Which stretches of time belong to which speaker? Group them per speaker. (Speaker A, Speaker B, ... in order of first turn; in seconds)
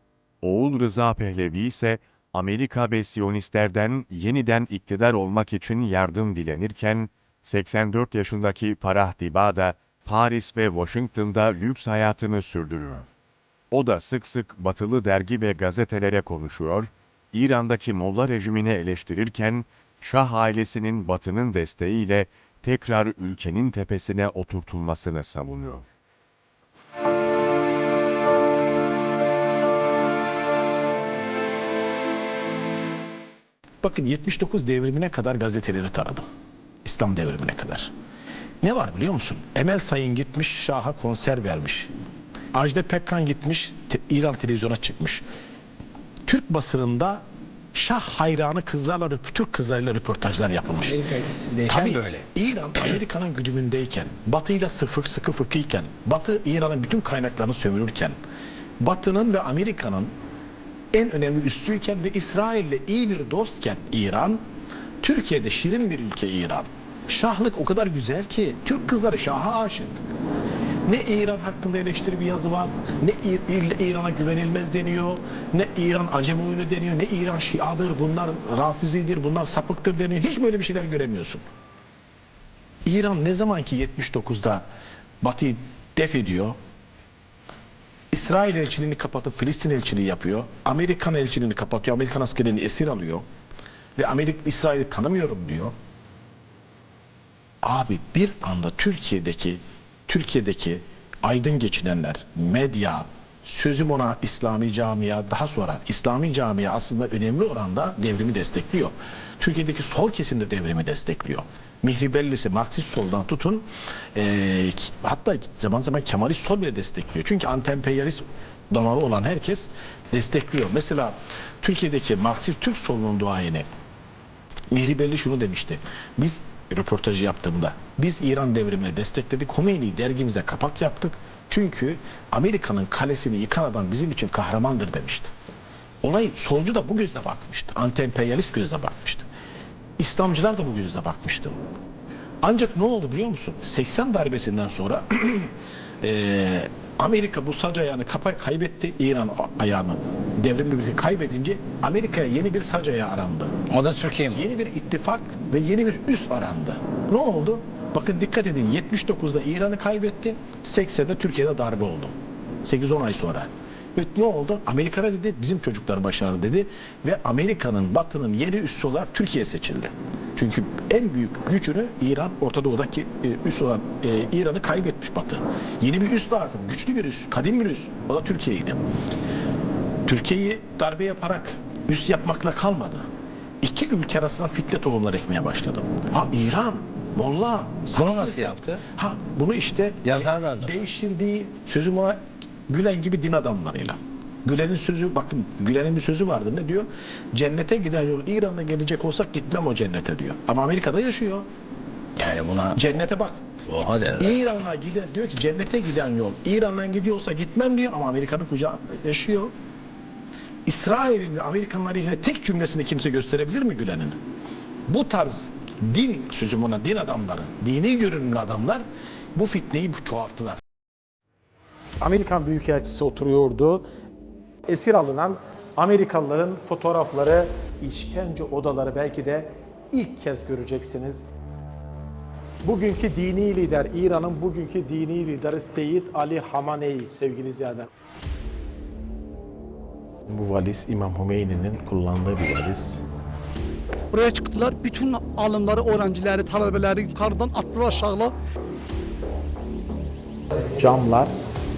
Speaker A: 0.4-13.1, 13.7-25.9
Speaker B: 33.8-36.2, 36.8-37.9, 38.6-41.9, 42.5-45.2, 46.2-47.2, 47.7-51.0, 51.7-58.2, 58.8-60.1, 60.9-64.4, 65.0-70.0, 70.8-81.4, 82.8-84.6, 85.2-86.6, 88.1-93.2, 94.0-95.7, 97.6-123.7, 124.7-135.3, 136.0-139.3, 140.0-141.6, 142.4-153.5, 154.3-178.8, 180.1-183.0, 183.6-192.2, 192.7-201.5, 202.7-203.4, 204.2-209.5, 210.7-214.2, 214.9-218.8, 219.3-220.6, 226.2-227.0, 227.9-229.2, 235.8-236.2, 237.1-237.7, 240.3-243.0, 250.9-251.3
Speaker C: 50.8-52.2, 153.7-154.4, 187.9-188.8, 190.0-190.7, 202.2-202.8, 203.7-204.4
Speaker D: 222.0-223.8, 224.7-229.4, 230.0-231.1, 232.7-237.7
Speaker E: 244.1-248.3